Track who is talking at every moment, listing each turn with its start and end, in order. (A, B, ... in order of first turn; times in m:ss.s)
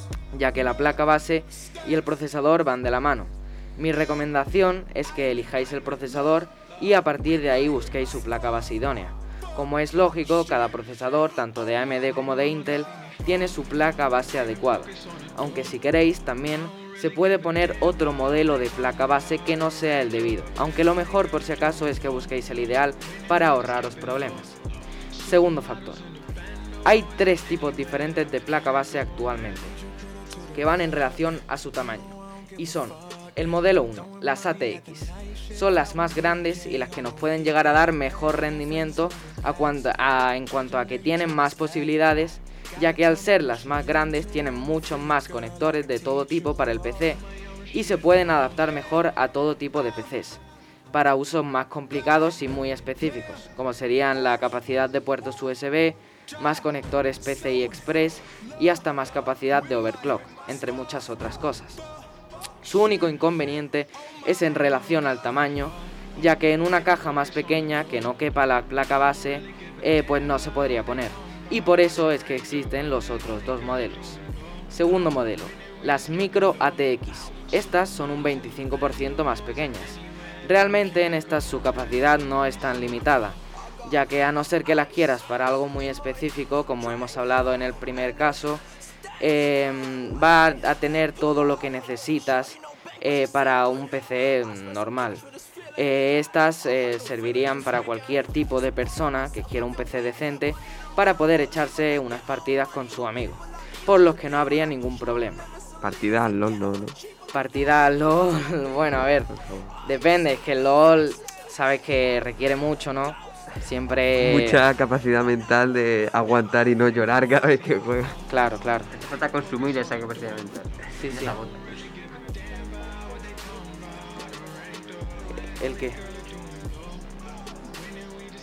0:00.3-0:24.6 A
0:25.2-0:26.0 A
0:26.8-0:29.8 A
0:30.5-0:47.2 A
0:47.7-0:50.4 A
0:50.9-1:01.8 A
1:02.6-1:28.6 A
1:29.2-1:35.2 A
1:35.8-1:45.4 A
1:45.8-1:47.0 B
1:47.3-1:49.3 A
1:49.3-1:49.7 B
1:49.8-1:54.6 A
1:54.2-1:58.2 B
1:58.3-1:58.9 A
1:58.9-2:01.9 C
2:01.0-2:01.4 A
2:05.5-2:06.0 A